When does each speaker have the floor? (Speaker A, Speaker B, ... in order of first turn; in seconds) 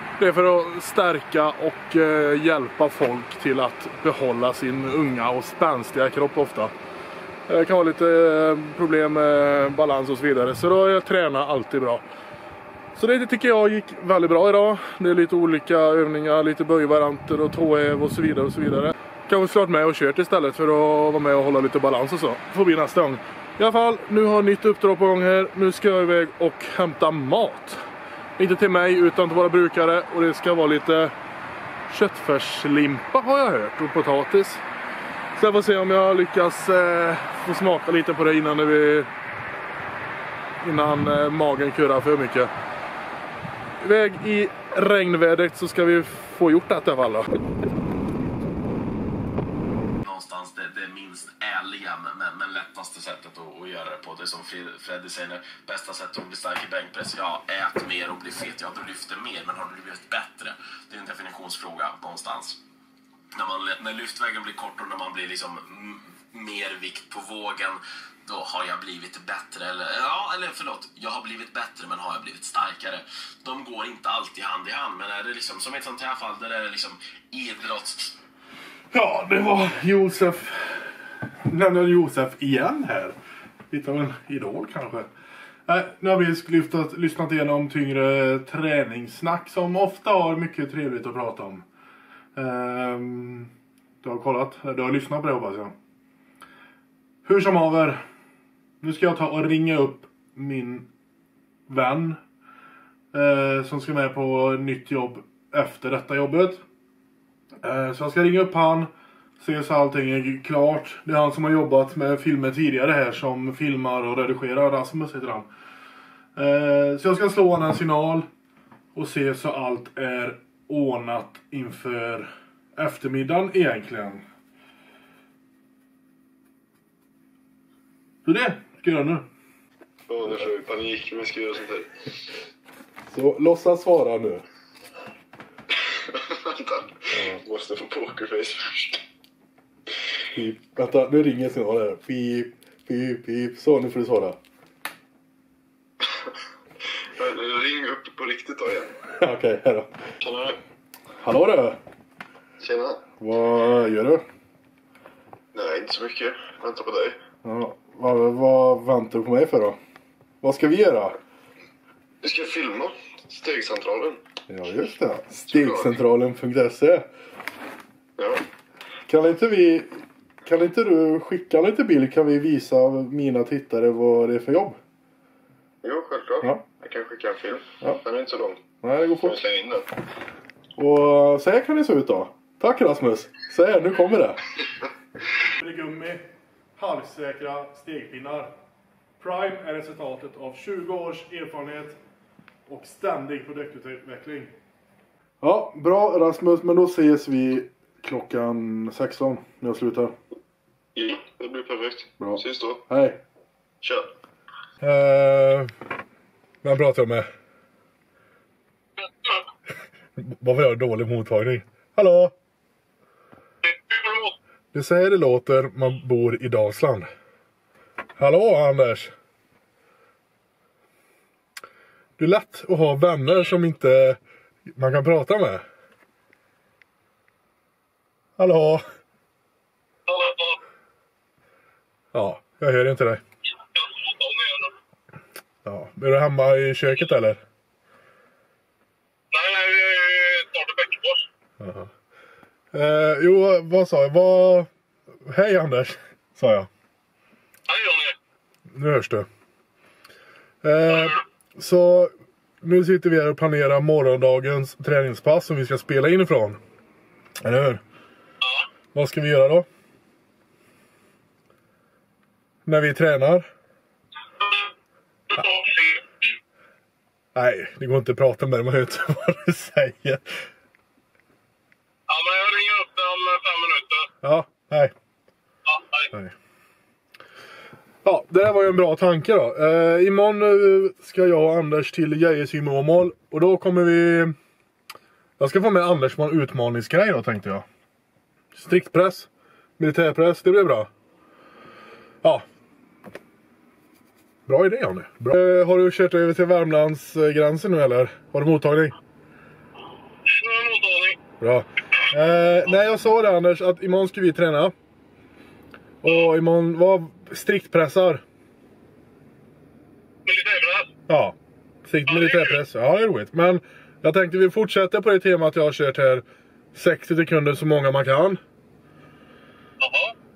Speaker A: 0.2-6.7, 7.5-12.0, 12.9-27.8, 28.4-31.1, 31.9-34.6, 35.3-39.1, 40.6-42.5, 43.8-47.3, 78.9-83.2, 83.7-85.1, 85.7-91.7, 92.3-93.5, 94.0-95.7, 97.2-98.0, 98.8-100.9, 101.7-102.2, 103.1-106.6, 107.6-115.5, 116.3-118.3, 118.9-124.2, 128.2-129.3, 133.1-134.4, 137.1-137.4, 140.3-144.4, 149.2-149.9, 151.2-151.8, 153.2-154.2, 157.4-159.8, 160.4-161.2, 164.5-167.0, 169.1-174.8, 178.8-179.3, 180.8-184.4, 185.6-188.5, 189.2-192.0, 192.7-194.5, 195.4-200.1, 202.2-203.2, 204.8-205.7, 206.6-207.3, 210.2-212.3, 214.7-217.1, 218.2-219.1, 222.2-224.2, 224.7-225.6, 228.4-228.8, 232.1-233.2, 235.7-237.4, 241.6-241.9, 242.7-244.7, 245.2-246.7, 248.7-249.3, 250.6-252.1, 252.6-256.6, 257.4-257.8, 258.9-259.6, 262.6-263.5, 267.4-270.3, 274.2-274.9, 278.0-284.4, 285.4-287.6, 288.5-290.9, 294.5-298.9, 301.4-304.7, 306.0-308.2, 311.1-318.4
Speaker B: 50.0-62.6, 63.4-78.2
Speaker C: 130.1-132.1, 136.1-139.0, 147.1-148.9, 150.2-150.6, 152.6-153.0, 155.5-157.2, 162.2-164.2, 165.5-166.0, 168.2-168.4, 175.8-178.6, 179.2-179.9, 200.9-202.8, 203.8-204.1
Speaker D: 209.0-209.4, 213.6-214.3, 230.1-230.6, 233.7-234.7, 239.3-241.3, 247.7-248.2, 265.3-266.2, 272.1-274.1, 275.6-276.1, 300.2-301.2, 310.2-310.9, 312.1-312.6, 319.8-320.1